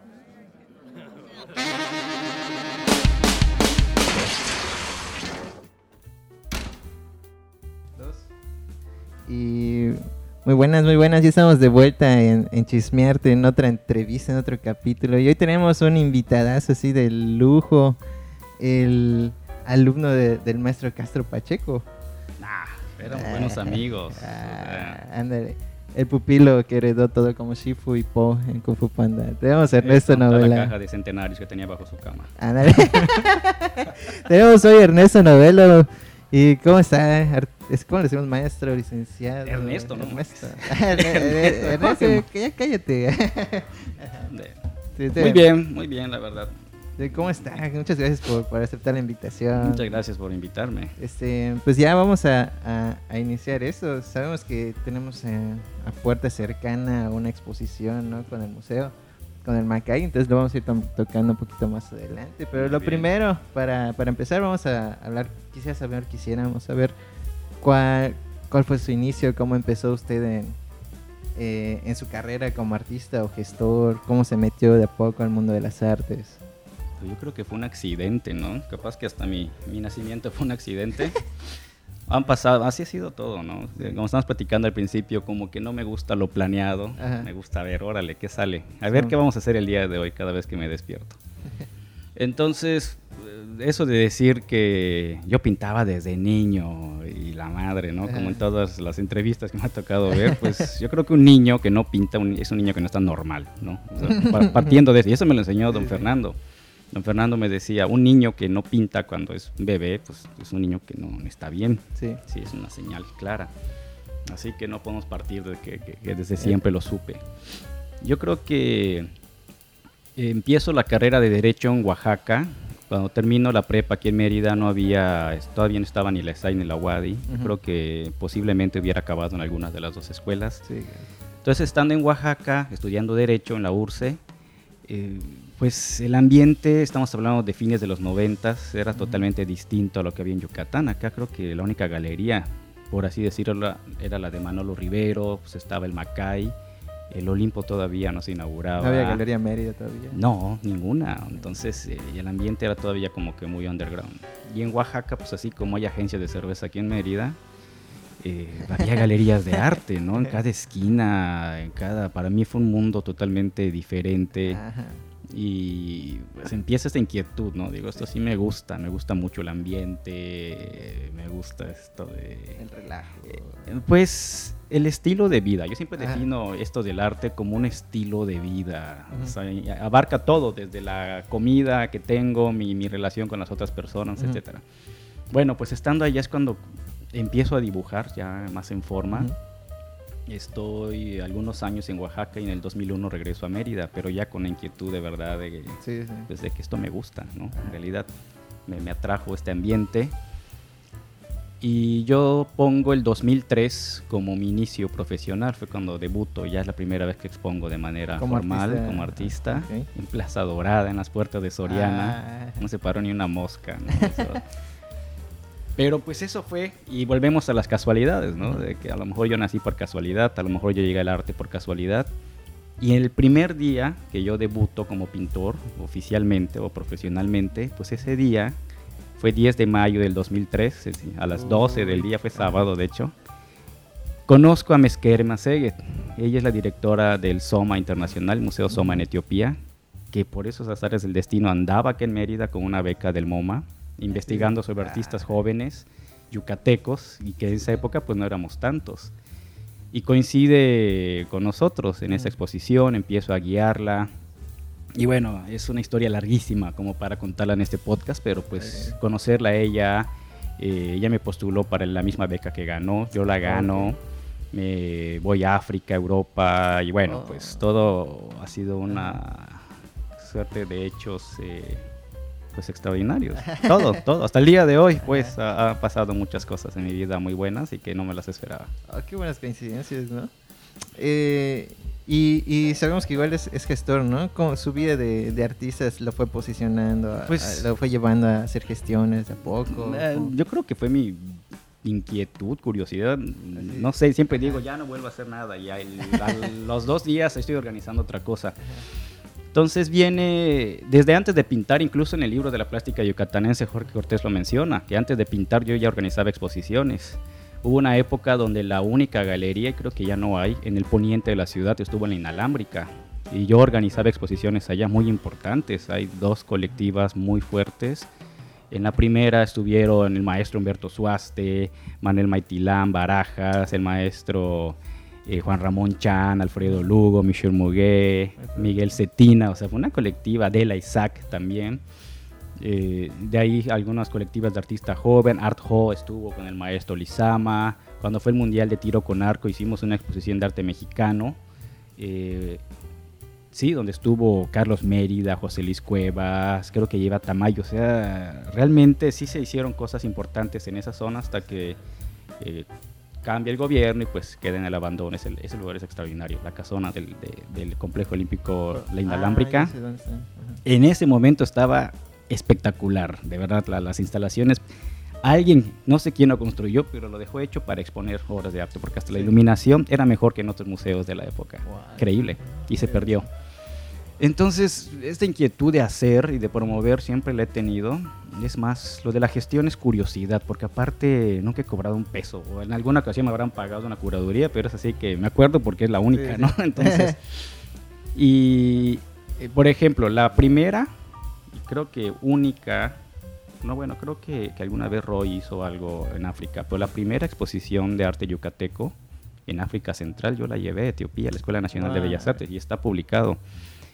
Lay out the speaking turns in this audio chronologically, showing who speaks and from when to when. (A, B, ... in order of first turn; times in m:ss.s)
0:08.0-0:08.3 A
0:09.3-0:18.0 A
0:18.6-0:21.9 A
0:22.4-0:25.0 B
0:23.0-0:30.7 A
0:29.8-0:32.3 B
0:32.4-0:44.2 A
0:39.4-0:42.2 B
0:44.2-0:44.6 B
0:45.0-0:45.4 A
0:45.2-0:46.5 B
0:47.0-0:49.9 A
0:49.5-0:50.9 B
0:51.0-0:58.9 A
0:59.4-1:06.9 A
1:02.5-1:03.1 B
1:07.6-1:10.6 A
1:11.4-1:16.4 A
1:17.0-1:21.2 B
1:22.1-1:31.2 B
1:27.0-1:27.3 A
1:32.2-1:46.4 B
1:38.0-1:38.4 A
1:44.1-1:44.8 A
1:45.7-1:46.1 A
1:46.9-1:53.5 B
1:52.0-1:52.2 A
1:54.3-1:57.2 B
1:58.0-1:59.1 B
2:00.2-2:10.6 B
2:07.3-2:07.5 A
2:10.6-2:11.1 A
2:11.4-2:14.2 B
2:14.8-2:26.5 B
2:18.9-2:19.2 A
2:27.1-2:29.2 B
2:28.8-2:30.2 A
2:30.1-2:37.4 B
2:38.2-2:44.6 B
2:44.4-2:45.0 A
2:45.3-2:52.6 B
2:52.6-2:53.6 A
2:53.3-3:04.6 B
2:56.0-2:56.2 A
3:05.3-3:09.3 B
3:09.1-3:09.4 A
3:10.3-3:18.1 B
3:15.8-3:16.3 A
3:18.6-3:20.1 B
3:21.6-3:34.4 B
3:28.2-3:29.9 A
3:31.6-3:32.6 A
3:35.8-3:42.1 B
3:42.8-3:48.6 B
3:49.2-3:53.1 B
3:51.4-3:52.6 A
3:54.2-3:59.6 B
4:00.1-4:09.1 B
4:04.1-4:05.2 A
4:09.9-4:14.1 B
4:12.1-4:12.3 A
4:15.0-4:24.0 B
4:18.5-4:19.0 A
4:23.4-4:23.9 A
4:24.5-4:31.8 B
4:27.1-4:27.6 A
4:28.9-4:29.2 A
4:32.5-4:38.7 B
4:33.4-4:34.0 A
4:35.0-4:35.3 A
4:38.9-4:40.3 A
4:41.0-4:50.3 A
4:47.2-4:47.7 B
4:49.7-4:58.6 B
4:53.6-4:53.9 A
4:59.5-5:18.1 B
5:18.7-5:31.8 B
5:28.4-5:29.0 A
5:32.6-5:41.4 B
5:42.0-5:42.6 B
5:43.5-5:51.8 B
5:52.4-5:52.7 B
5:53.2-5:59.7 B
5:58.7-6:00.6 A
6:00.6-6:04.6 B
6:05.2-6:13.3 B
6:11.6-6:13.2 A
6:14.2-6:27.4 B
6:26.1-6:27.2 A
6:28.1-6:30.9 B
6:31.5-6:33.0 B
6:33.6-6:43.4 B
6:41.8-6:42.4 A